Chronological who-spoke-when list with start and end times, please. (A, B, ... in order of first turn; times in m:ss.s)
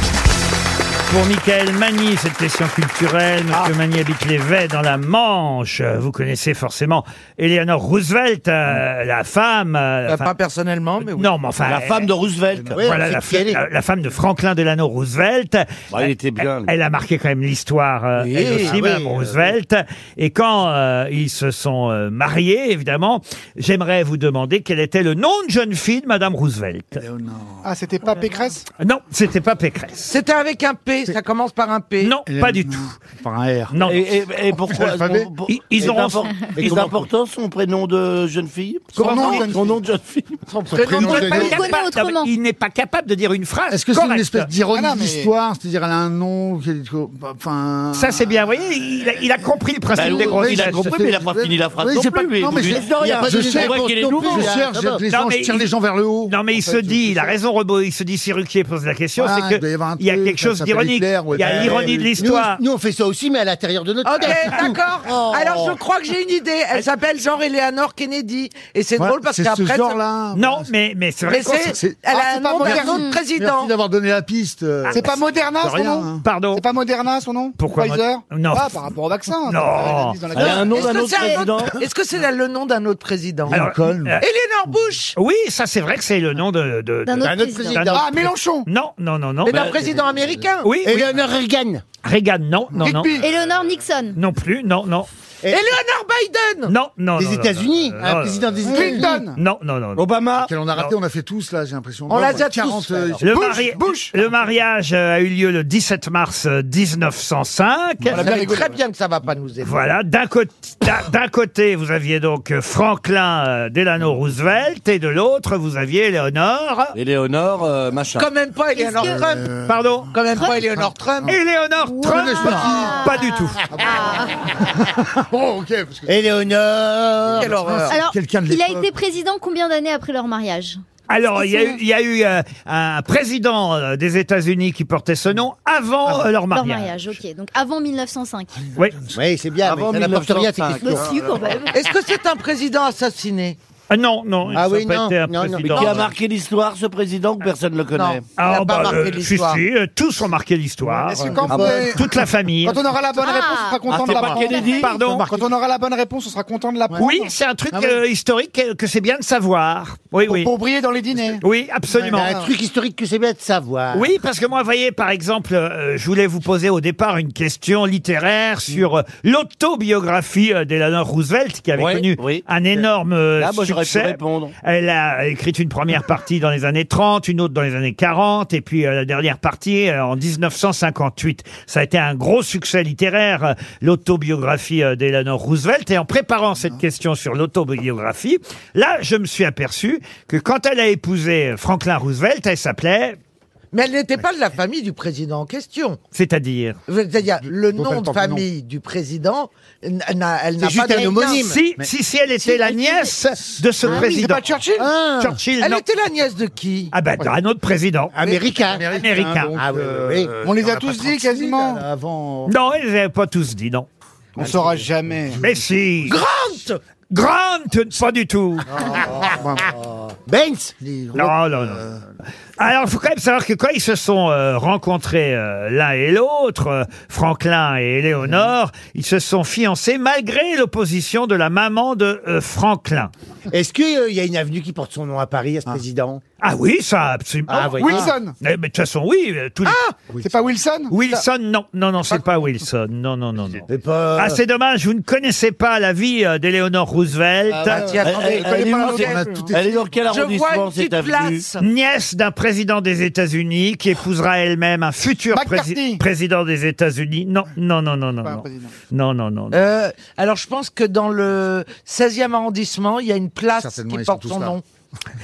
0:01.1-0:10.3 A
0:10.1-0:11.3 B
0:11.1-0:12.1 A
0:11.6-0:12.8 C
0:12.7-0:13.6 D
0:12.8-0:27.0 A
0:15.9-0:16.7 C
0:18.2-0:18.8 C
0:18.5-0:19.3 D
0:26.9-0:27.7 E
0:27.6-0:28.6 F
0:28.8-0:30.1 A
0:30.1-0:32.2 B
0:32.0-0:32.9 A
0:32.3-0:33.8 E
0:33.7-0:34.0 A
0:33.8-0:41.1 C
0:34.6-0:35.3 E
0:35.5-0:36.4 A
0:36.5-0:37.0 D
0:38.9-0:39.8 F
0:39.0-0:39.5 A
0:40.7-0:41.7 B
0:40.8-0:41.6 D
0:41.0-0:44.5 A
0:41.0-0:42.3 G
0:41.2-0:41.4 E
0:43.7-0:48.4 E
0:44.7-0:45.3 F
0:47.9-0:50.8 A
0:49.9-0:54.6 C
0:50.1-0:56.4 E
0:52.5-0:55.0 D
0:55.1-0:55.7 A
0:56.2-1:02.6 A
0:56.8-0:57.2 F
0:59.2-1:02.2 E
1:01.4-1:05.8 D
1:04.0-1:10.0 B
1:09.0-1:10.7 E
1:10.3-1:11.8 A
1:11.3-1:13.7 B
1:11.7-1:12.0 E
1:12.1-1:13.0 F
1:12.6-1:16.2 E
1:12.8-1:13.2 G
1:14.9-1:20.9 F
1:16.2-1:16.6 A
1:17.6-1:18.7 A
1:19.4-1:20.2 A
1:20.3-1:21.8 C
1:20.4-1:20.7 D
1:20.5-1:23.6 B
1:21.1-1:21.4 G
1:23.5-1:24.2 E
1:23.5-1:24.2 A
1:24.2-1:25.1 B
1:25.2-1:29.8 A
1:27.0-1:27.9 G
1:27.2-1:28.2 D
1:27.8-1:28.7 F
1:29.4-1:30.7 B
1:29.5-1:30.2 C
1:30.6-1:31.1 A
1:30.8-1:31.8 D
1:32.0-1:33.3 A
1:32.8-1:33.3 F
1:33.2-1:34.2 G
1:34.1-1:35.1 A
1:35.5-1:36.7 B
1:36.7-1:40.1 A
1:37.2-1:39.2 D
1:38.6-1:39.4 F
1:38.6-1:39.1 E
1:40.0-1:40.5 C
1:40.3-1:43.5 E
1:42.1-1:43.2 B
1:43.2-1:48.3 A
1:43.2-1:44.1 F
1:48.1-1:48.8 F
1:48.1-1:49.8 B
1:49.6-1:56.9 A
1:56.9-1:58.3 C
1:58.2-1:59.5 B
1:58.7-1:59.2 G
1:59.1-1:59.8 E
1:59.6-2:00.2 A
2:00.1-2:01.3 B
2:00.3-2:00.6 G
2:01.2-2:03.6 A
2:01.8-2:04.3 G
2:02.0-2:03.0 E
2:03.7-2:04.1 E
2:04.8-2:06.2 E
2:06.1-2:07.6 D
2:07.3-2:08.9 E
2:07.4-2:08.0 B
2:07.9-2:10.8 G
2:11.1-2:16.9 A
2:11.3-2:11.8 G
2:16.5-2:18.6 G
2:18.8-2:19.2 E
2:19.1-2:21.1 D
2:19.6-2:21.0 C
2:20.8-2:21.8 G
2:21.7-2:23.6 B
2:23.9-2:26.1 A
2:24.5-2:26.0 D
2:25.6-2:28.2 C
2:27.9-2:29.6 B
2:28.4-2:32.8 A
2:31.0-2:37.3 F
2:31.5-2:31.8 D
2:31.5-2:31.8 C
2:33.2-2:34.8 G
2:33.9-2:34.9 C
2:34.7-2:35.3 A
2:35.0-2:35.4 E
2:37.0-2:40.5 A
2:37.7-2:38.0 E
2:40.2-2:41.4 F
2:41.4-2:42.4 A
2:42.0-2:44.1 D
2:43.9-3:13.2 A
2:51.7-2:52.8 C
2:53.4-2:54.5 C
3:13.7-3:16.0 B
3:16.1-3:16.8 A
3:16.9-3:21.5 B
3:17.4-3:18.4 E
3:20.6-3:21.6 D
3:21.4-3:24.5 A
3:22.7-3:23.0 G
3:23.9-3:24.9 F
3:24.8-3:25.4 D
3:25.2-3:25.8 A
3:25.6-3:26.9 B
3:26.9-3:28.1 A
3:28.1-3:28.9 D
3:28.6-3:32.5 E
3:28.9-3:29.5 A
3:29.5-3:30.3 D
3:30.4-3:31.8 F
3:32.4-3:33.9 A
3:34.4-3:35.4 F
3:34.4-3:35.7 E
3:35.4-3:36.2 A
3:36.1-3:36.8 B
3:37.1-3:38.8 A
3:38.7-3:39.7 E
3:40.2-3:40.7 D
3:40.8-3:42.0 E
3:41.1-3:41.8 A
3:42.6-3:53.1 A
3:53.5-3:56.2 D
3:56.4-3:59.8 A
3:57.5-3:58.1 D
3:57.8-3:58.3 F
3:59.6-4:00.0 B
4:00.1-4:00.5 E
4:00.2-4:00.9 F
4:00.9-4:07.9 A
4:03.7-4:04.4 D
4:07.6-4:09.2 B
4:07.6-4:09.6 F
4:08.0-4:11.4 C
4:09.0-4:09.6 E
4:10.0-4:11.6 B
4:11.6-4:19.6 A
4:15.3-4:16.0 F
4:18.2-4:18.7 F
4:19.5-4:24.6 B
4:23.5-4:24.6 E